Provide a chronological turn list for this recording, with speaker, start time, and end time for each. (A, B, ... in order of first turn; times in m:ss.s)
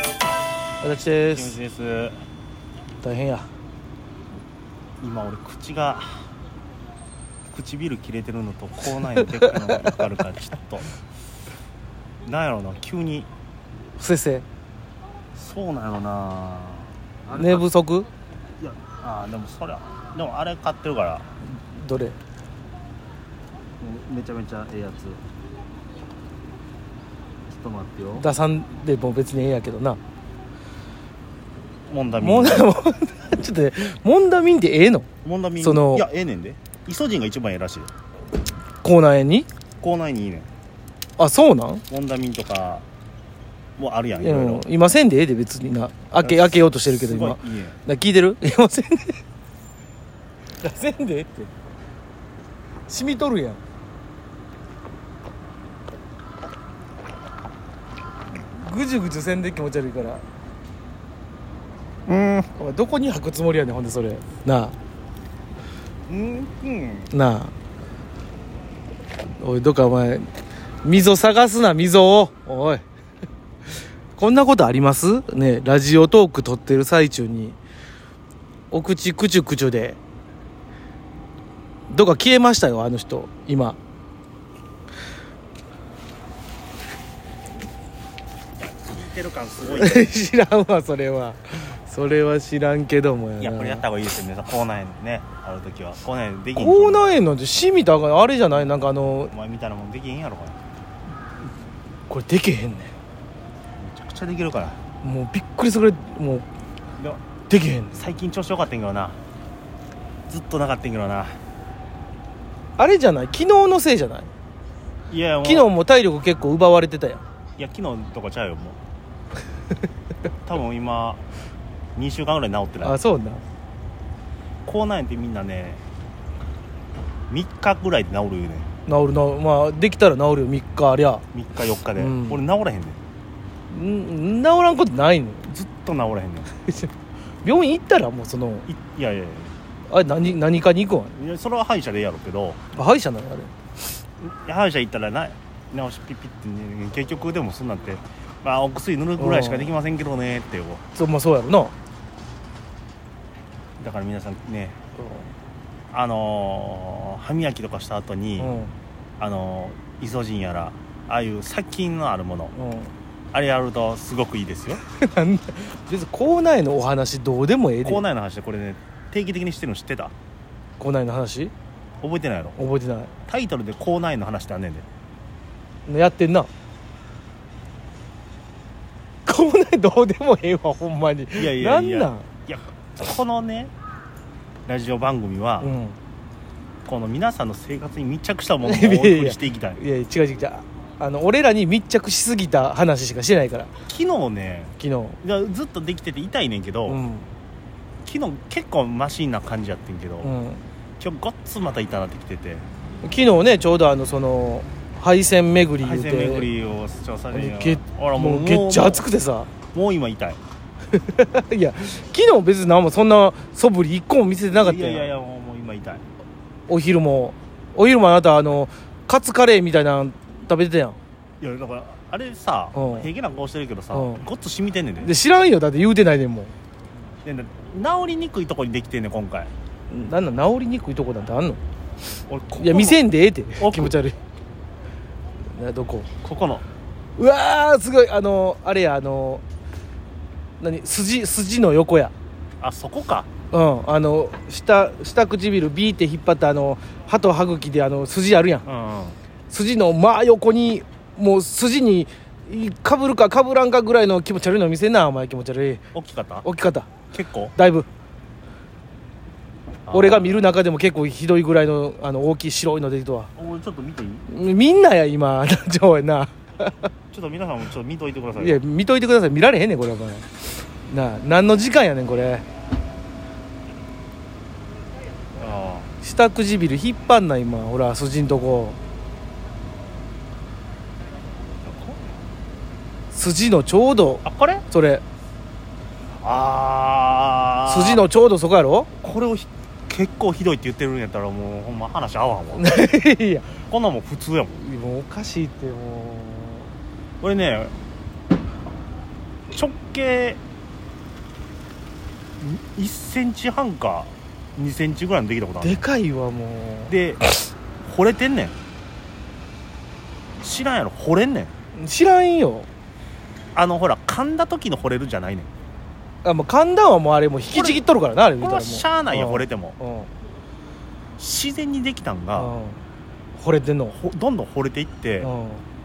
0:00.8-0:01.6 A
0:01.3-0:02.2 B
0:03.0-0:03.5 A
0:05.0-0:06.3 B
0:07.5-0:10.9 B
0:09.2-0:10.0 A
0:12.2-0:13.3 B
0:14.0-0:14.5 A
0:15.3-0:17.7 B
0:17.3-0:18.1 A
0:18.6-0:21.3 B
0:21.7-0:22.2 A
0:23.8-0:25.2 B
0:27.5-0:28.3 B
0:28.2-0:30.0 A
0:31.9-0:32.7 B
0:32.2-0:35.1 A
0:35.2-0:37.9 B
0:35.6-0:36.1 A
0:38.8-0:39.5 A
0:39.8-0:40.5 B
0:41.2-0:41.8 A
0:41.9-0:42.8 B
0:43.8-0:44.6 B
0:44.2-0:49.2 A
0:46.2-0:47.8 B
0:50.6-0:51.5 A
0:52.9-0:53.6 A
0:58.4-1:00.2 A
1:02.1-1:02.5 B
1:02.6-1:04.8 A
1:06.1-1:07.1 B
1:07.1-1:07.5 A
1:09.4-1:10.3 A
1:10.8-1:12.8 A
1:14.2-1:17.6 A
1:18.7-1:20.0 A
1:21.9-1:23.8 A
1:28.6-1:30.1 B
1:29.6-1:33.8 A
1:33.4-1:37.1 B
1:36.6-1:39.3 A
1:39.3-1:40.6 B
1:42.1-1:42.9 A
1:43.8-1:44.8 B
1:45.0-1:46.5 A
1:47.5-1:47.9 A
1:47.9-1:49.2 B
1:50.3-1:51.4 B
1:52.8-1:54.3 A
1:55.1-1:55.7 B
1:55.4-1:57.2 A
1:57.6-1:58.8 B
2:00.4-2:01.2 B
2:02.0-2:03.0 B
2:02.8-2:03.4 A
2:04.6-2:05.8 B
2:07.3-2:08.7 B
2:08.9-2:11.2 A
2:11.3-2:13.0 B
2:12.0-2:12.4 A
2:13.7-2:15.5 A
2:15.5-2:16.5 B
2:17.4-2:18.7 A
2:18.7-2:19.6 B
2:19.9-2:21.2 A
2:21.1-2:22.6 B
2:22.7-2:23.5 A
2:24.2-2:30.8 B
2:29.2-2:29.7 A
2:30.9-2:31.7 A
2:33.8-2:34.8 B
2:35.0-2:35.3 A
2:35.9-2:38.6 B
2:38.4-2:38.7 A
2:39.2-2:42.5 B
2:42.5-2:42.9 A
2:43.3-2:44.8 B
2:44.8-2:48.0 A
2:47.8-2:50.1 B
2:50.8-2:51.5 A
2:52.0-2:52.6 B
2:52.6-2:53.1 A
2:53.3-2:54.9 B
2:55.9-2:56.5 A
2:59.3-3:02.3 A
3:01.4-3:03.7 B
3:04.7-3:05.7 B
3:05.6-3:06.0 A
3:06.8-3:09.8 B
3:08.6-3:13.7 A
3:13.9-3:17.0 B
3:14.8-3:15.2 A
3:16.9-3:17.3 A
3:18.0-3:20.3 B
3:20.2-3:20.6 A
3:21.0-3:22.7 B
3:23.0-3:26.5 A
3:25.8-3:29.0 B
3:27.3-3:29.5 A
3:29.7-3:30.4 B
3:30.9-3:35.1 A
3:34.5-3:36.0 B
3:36.7-3:41.0 A
3:41.4-3:45.2 B
3:42.7-3:43.1 A
3:43.9-3:44.2 A
3:45.0-3:46.5 A
3:47.2-3:49.5 B
3:49.9-3:51.6 A
3:52.3-3:53.0 B
3:52.6-3:54.2 A
3:53.6-3:54.0 B
3:55.5-3:56.1 A
3:56.2-3:56.6 B
3:57.2-3:59.4 A
4:00.6-4:02.1 A
4:02.6-4:03.3 B
4:03.5-4:08.7 A
4:08.6-4:09.2 B
4:09.5-4:15.8 A
4:15.9-4:16.5 B
4:16.4-4:16.9 A
4:17.1-4:17.5 B
4:17.6-4:17.9 A
4:19.9-4:20.4 B
4:19.9-4:23.3 A
4:23.4-4:24.3 B
4:24.3-4:26.9 A
4:27.1-4:28.6 B
4:28.4-4:32.4 A
4:35.4-4:35.9 B
4:36.0-4:38.8 A
4:41.6-4:42.0 B
4:43.1-4:45.0 A
4:44.2-4:44.7 B
4:46.2-4:48.0 B
4:47.7-4:48.9 A
4:49.0-4:52.8 B
4:52.6-4:53.6 A
4:53.7-4:54.6 B
4:54.6-4:56.7 A
4:57.2-4:57.8 B
4:59.5-5:00.4 B
5:02.4-5:05.8 B
5:05.6-5:07.0 A
5:06.9-5:07.2 B
5:07.8-5:08.6 B
5:10.4-5:11.5 B
5:11.8-5:12.7 A
5:13.6-5:15.5 B
5:16.2-5:20.1 A
5:17.5-5:17.8 B
5:18.4-5:19.8 B
5:21.2-5:22.5 B
5:22.4-5:22.8 A
5:23.4-5:24.0 A
5:23.9-5:25.3 B
5:25.2-5:25.6 A